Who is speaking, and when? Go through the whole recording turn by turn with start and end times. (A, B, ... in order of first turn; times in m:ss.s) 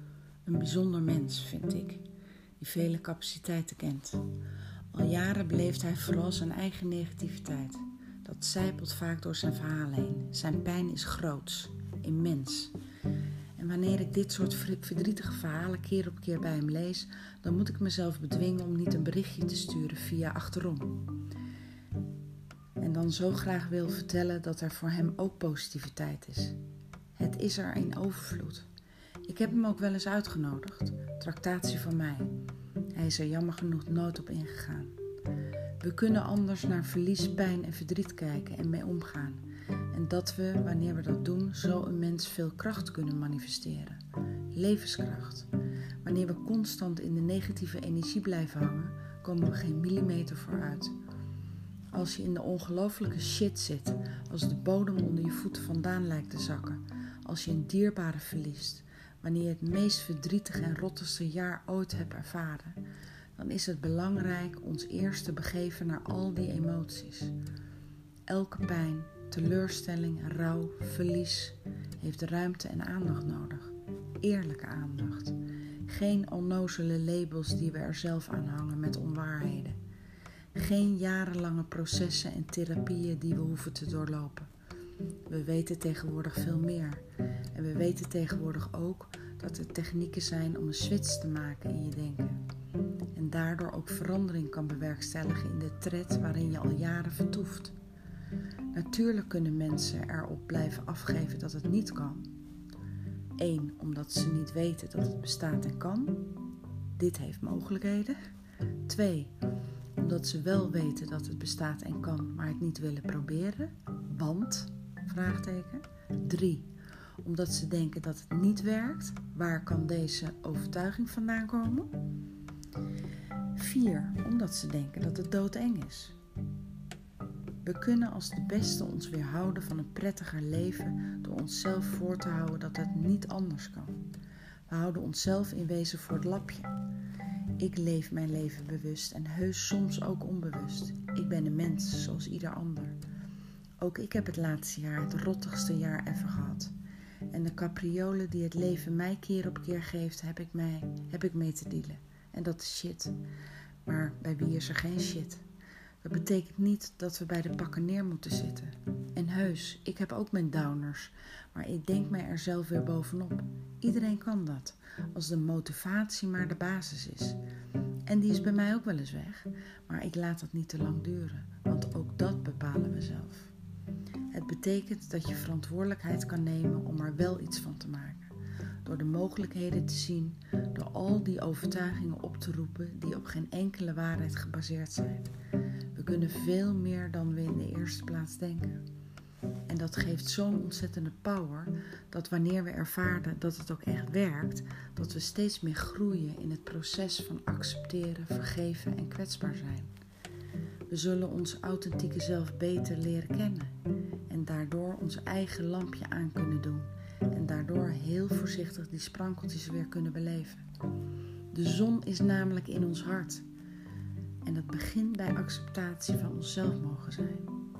0:00.4-0:02.0 A
0:02.6-0:04.3 A
0:04.9-0:12.7 A
0:13.6-0:21.0 A
0:22.8-0:26.6 A
0:27.1-0:28.7 A
0:29.2-0:32.3 A
0:32.9-0:35.0 A
0:35.8-0:44.0 A
0:44.5-0:45.5 A
0:46.0-0:50.9 A
0:51.9-1:02.8 A
1:03.4-1:07.3 A
1:08.3-1:19.8 A
1:20.5-1:24.5 A
1:25.3-1:32.4 A
1:33.1-1:37.8 A
1:38.7-1:42.2 A
1:43.4-1:46.3 A
1:47.0-1:48.2 A
1:48.8-1:49.3 A
1:50.0-1:56.7 A
1:57.2-2:01.9 A
2:03.5-2:06.2 A
2:07.6-2:14.0 A
2:14.7-2:16.7 A
2:17.6-2:23.0 A
2:23.8-2:26.7 A
2:27.3-2:33.1 A
2:33.8-2:35.4 A
2:36.0-2:47.4 A
2:48.0-2:53.5 A
2:54.3-2:58.3 A
2:58.8-3:05.3 A
3:05.9-3:08.8 A
3:09.7-3:19.9 A
3:20.9-3:23.7 A
3:24.3-3:30.6 A
3:31.5-3:33.4 A
3:34.4-3:37.5 A